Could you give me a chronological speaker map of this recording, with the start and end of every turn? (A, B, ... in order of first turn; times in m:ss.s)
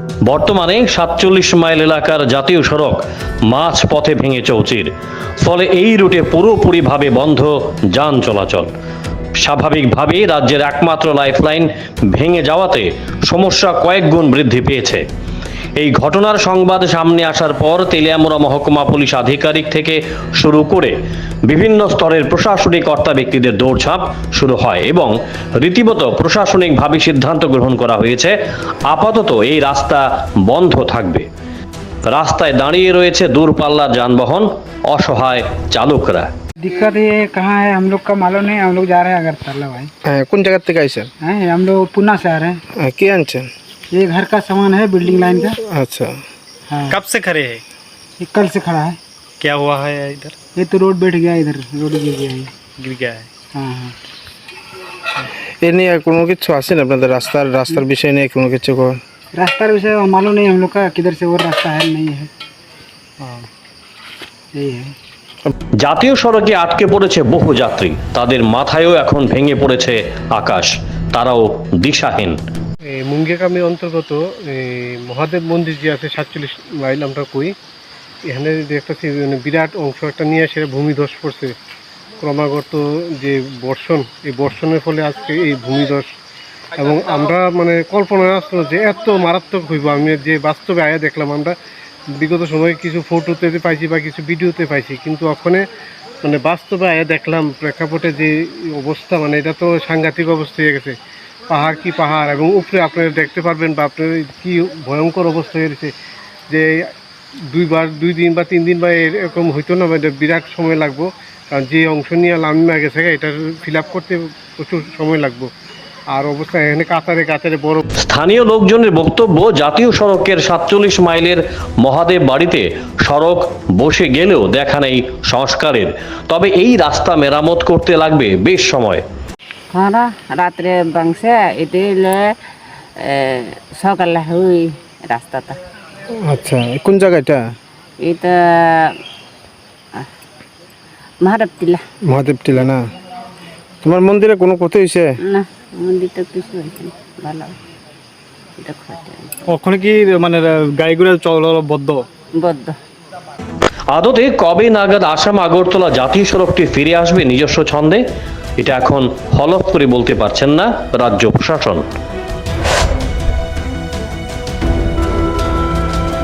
0:00.2-0:04.9 A
0:05.4-0:08.7 A
0:09.4-0:15.0 A
0:15.8-0:20.9 A
0:21.4-0:28.3 A
0:28.9-0:31.3 A
0:32.0-0:36.3 A
0:36.6-0:39.9 B
0:40.0-0:41.1 C
0:41.2-0:42.6 B
0:42.7-0:43.5 C
0:43.9-0:45.6 B
0:45.6-0:46.2 C
0:46.7-0:47.0 B
0:46.9-0:47.6 D
0:48.2-0:49.0 B
0:49.4-0:50.4 D
0:50.6-0:52.5 B
0:52.8-0:53.3 D
0:53.5-0:54.0 B
0:55.6-0:59.0 C
0:59.3-1:02.3 B
1:03.2-1:03.5 D
1:04.5-1:04.9 B
1:05.8-1:12.4 A
1:12.9-1:17.5 E
1:18.3-1:21.5 E
1:22.2-1:26.1 E
1:26.8-1:31.5 E
1:32.2-1:35.7 E
1:36.2-1:40.9 E
1:41.5-1:45.9 E
1:46.5-1:46.9 E
1:47.5-1:55.5 E
1:56.2-1:57.8 E
1:58.0-2:09.0 A
2:09.7-2:12.3 F
2:13.0-2:15.6 F
2:16.2-2:17.4 C
2:18.0-2:19.0 F
2:21.2-2:21.8 F
2:22.1-2:22.8 C
2:23.8-2:25.1 C
2:25.3-2:27.6 F
2:28.6-2:29.3 F
2:29.5-2:32.1 D
2:32.4-2:32.7 F
2:33.9-2:38.0 A
2:38.6-2:41.8 A